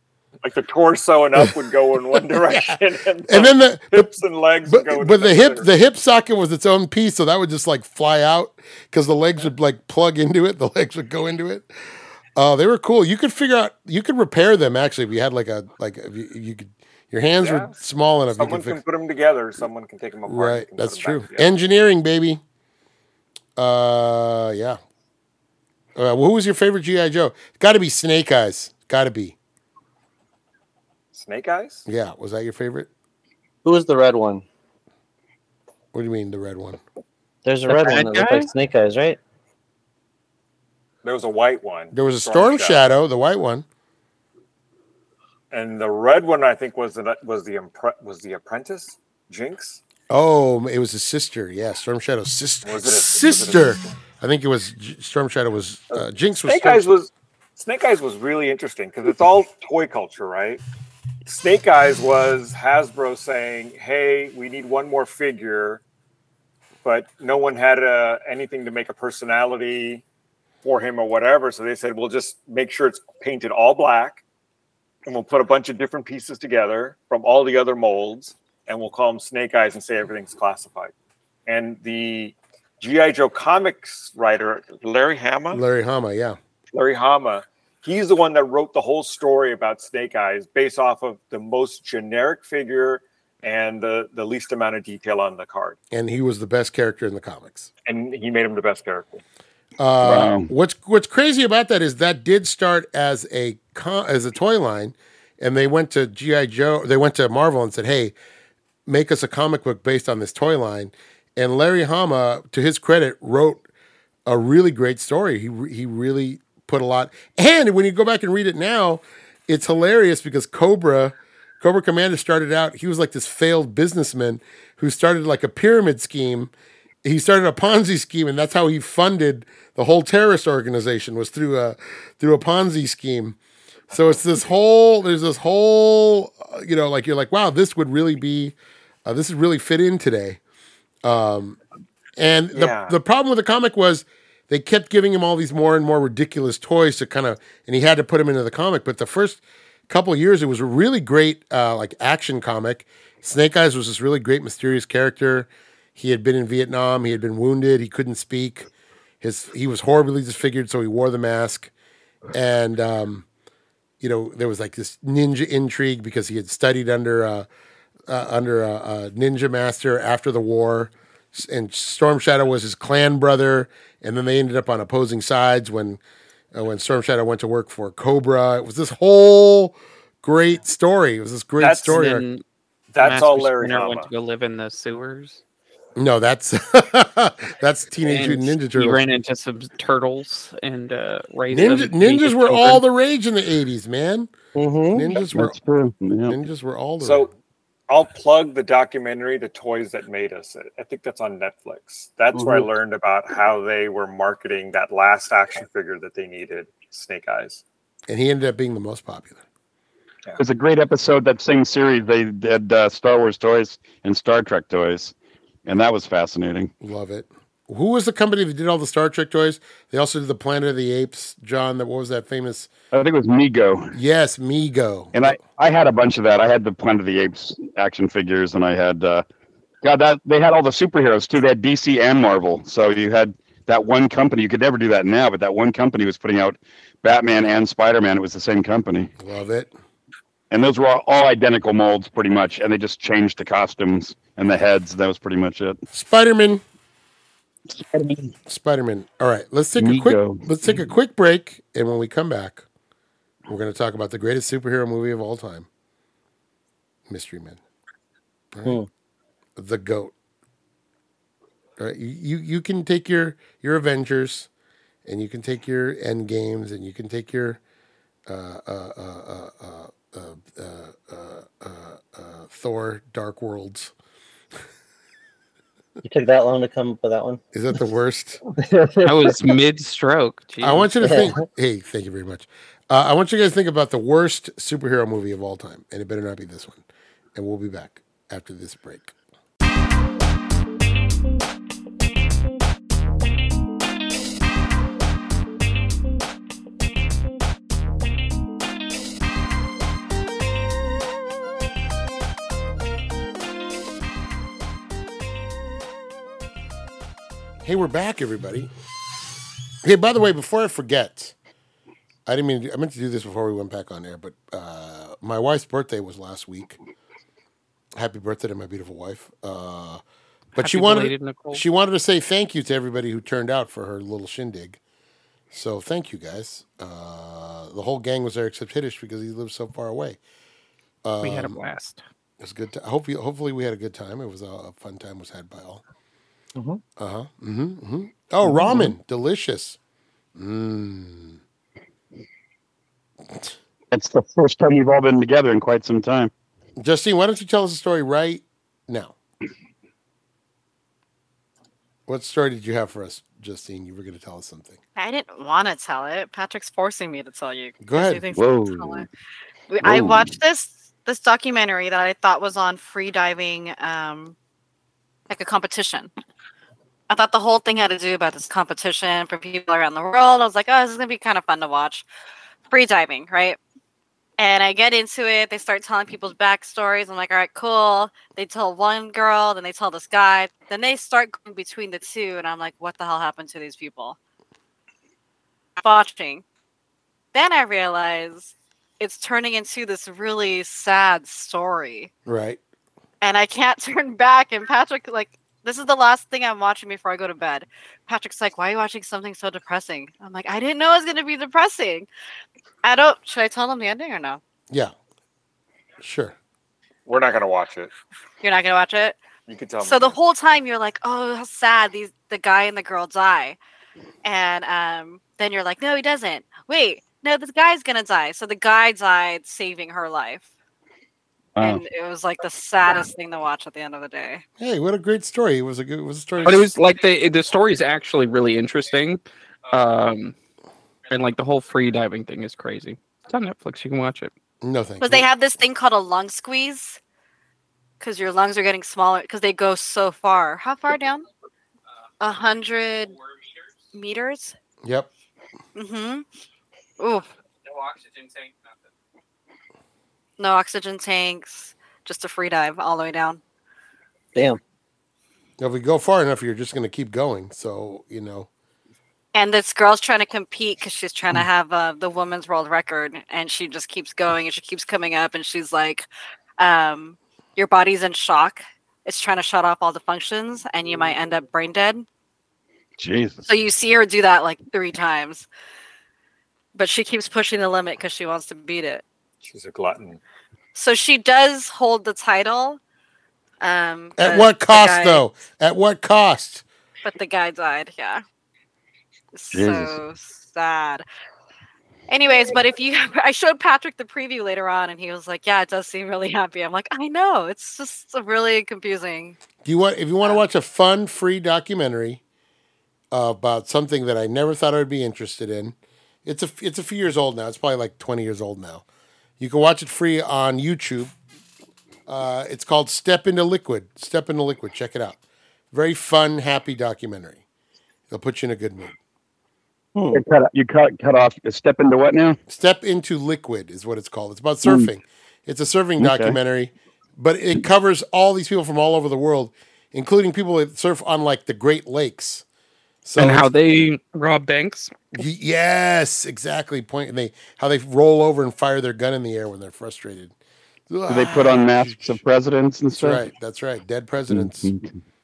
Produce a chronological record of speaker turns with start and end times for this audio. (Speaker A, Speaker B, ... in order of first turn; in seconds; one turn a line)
Speaker A: 0.4-5.7
Speaker B: 2.3-2.8
Speaker B: 3.3-4.1
Speaker B: 4.7-11.7
Speaker B: 12.3-18.8
Speaker A: 17.4-17.7
Speaker A: 18.3-21.5
Speaker B: 20.3-22.4
Speaker B: 23.6-24.8
Speaker B: 25.9-29.4
Speaker A: 31.1-31.9
Speaker B: 31.9-32.9
Speaker C: 33.6-34.4
Speaker B: 35.9-36.8
Speaker C: 37.4-39.2
Speaker D: 37.7-38.5
Speaker A: 41.0-42.8
Speaker B: 41.9-43.6
Speaker A: 45.5-49.8
Speaker B: 50.1-56.9
Speaker A: 52.6-53.9
Speaker A: 56.5-60.6
Speaker A: 61.2-65.8
Speaker A: 66.8-70.0
Speaker A: 70.6-74.2
Speaker A: 75.0-80.9
Speaker A: 81.5-85.6
Speaker B: 85.5-86.4
Speaker A: 86.7-95.8
Speaker B: 95.9-97.7
Speaker A: 97.8-99.2
Speaker B: 99.8-108.1
Speaker E: 100.0-100.5
Speaker B: 108.8-113.6
Speaker B: 114.3-126.5
Speaker B: 127.0-133.4
Speaker B: 133.9-140.4
Speaker B: 141.0-141.6
Speaker B: 142.2-158.7
Speaker A: 142.5-142.9
Speaker B: 159.2-161.7
Speaker B: 162.3-163.2
Speaker B: 164.0-167.5
Speaker B: 168.1-176.0
Speaker B: 176.5-182.2
Speaker A: 181.6-182.0
Speaker D: 181.9-182.4
Speaker A: 182.9-184.1
Speaker D: 183.0-185.4
Speaker B: 185.9-189.0
Speaker D: 188.0-192.8
Speaker B: 191.5-194.3
Speaker C: 194.5-195.1
Speaker B: 194.9-195.6
Speaker E: 195.2-196.4
Speaker B: 196.3-197.3
Speaker A: 197.0-197.3
Speaker A: 197.9-207.6
Speaker B: 208.1-209.4
Speaker E: 210.4-215.1
Speaker E: 215.7-216.7
Speaker B: 216.8-222.7
Speaker E: 222.9-224.0
Speaker B: 223.9-225.3
Speaker E: 225.1-229.2
Speaker E: 229.8-239.1
Speaker B: 239.2-239.7
Speaker E: 240.5-245.8
Speaker B: 245.9-246.6
Speaker E: 247.7-248.3
Speaker B: 248.5-252.6
Speaker E: 249.8-250.8
Speaker B: 253.5-255.7
Speaker B: 257.1-257.6
Speaker B: 258.5-258.8
Speaker B: 259.6-260.1
Speaker B: 261.8-264.5
Speaker B: 265.0-267.6
Speaker B: 268.3-273.9
Speaker C: 276.0-277.4
Speaker B: 277.5-278.4
Speaker C: 278.6-279.4
Speaker D: 279.0-281.2
Speaker B: 280.6-286.8
Speaker C: 281.0-281.4
Speaker B: 287.3-289.1
Speaker B: 307.6-308.7
Speaker B: 309.8-311.3
Speaker B: 312.3-316.8
Speaker B: 317.9-320.0
Speaker B: 320.6-324.8
Speaker D: 320.6-321.6
Speaker B: 325.5-330.2
Speaker B: 331.0-331.6
Speaker D: 331.2-332.0
Speaker B: 332.4-335.8
Speaker C: 336.6-336.8
Speaker B: 337.0-339.8
Speaker B: 340.4-341.4
Speaker E: 343.9-346.3
Speaker B: 346.8-349.1
Speaker B: 352.1-354.8
Speaker F: 354.9-359.1
Speaker B: 357.8-358.2
Speaker E: 358.3-359.1
Speaker F: 359.7-364.4
Speaker E: 359.8-360.3
Speaker F: 365.3-366.1
Speaker F: 367.1-372.1
Speaker F: 372.7-373.6
Speaker F: 374.4-384.2
Speaker F: 385.8-386.4
Speaker F: 387.3-392.1
Speaker B: 392.2-392.6
Speaker F: 393.2-402.1
Speaker F: 402.8-404.4
Speaker B: 406.0-406.3
Speaker A: 407.1-407.9
Speaker F: 408.4-409.2
Speaker A: 409.5-410.1
Speaker F: 409.8-413.6
Speaker F: 414.2-420.4
Speaker E: 421.6-421.8
Speaker F: 421.6-424.4
Speaker B: 424.6-426.7
Speaker D: 426.4-430.4
Speaker D: 431.1-434.3
Speaker B: 434.6-435.2
Speaker F: 435.0-437.0
Speaker F: 438.0-441.3
Speaker F: 442.2-443.2
Speaker F: 443.9-444.5
Speaker B: 444.8-445.1
Speaker F: 445.7-446.2
Speaker F: 447.0-447.3
Speaker D: 447.6-448.8
Speaker F: 450.4-453.4
Speaker C: 454.3-454.6
Speaker B: 455.6-458.5
Speaker F: 459.3-466.1
Speaker F: 466.6-472.0
Speaker E: 473.0-473.5
Speaker F: 473.5-475.5
Speaker F: 476.7-479.0
Speaker A: 479.4-480.2
Speaker F: 480.7-482.8
Speaker F: 483.6-485.2
Speaker B: 484.2-486.6
Speaker F: 487.0-488.2
Speaker F: 489.3-491.0
Speaker E: 489.5-490.0
Speaker F: 492.1-499.4
Speaker B: 499.6-502.2
Speaker B: 503.1-508.8
Speaker B: 509.4-511.1
Speaker B: 512.1-515.2
Speaker B: 515.7-517.4
Speaker B: 518.1-519.0
Speaker C: 519.9-520.2
Speaker E: 520.1-522.4
Speaker B: 522.5-532.4
Speaker E: 526.0-526.4
Speaker B: 533.0-533.5
Speaker D: 533.2-534.9
Speaker B: 535.1-540.3
Speaker B: 540.9-542.2
Speaker E: 541.1-543.2
Speaker B: 543.0-544.7
Speaker E: 544.3-545.0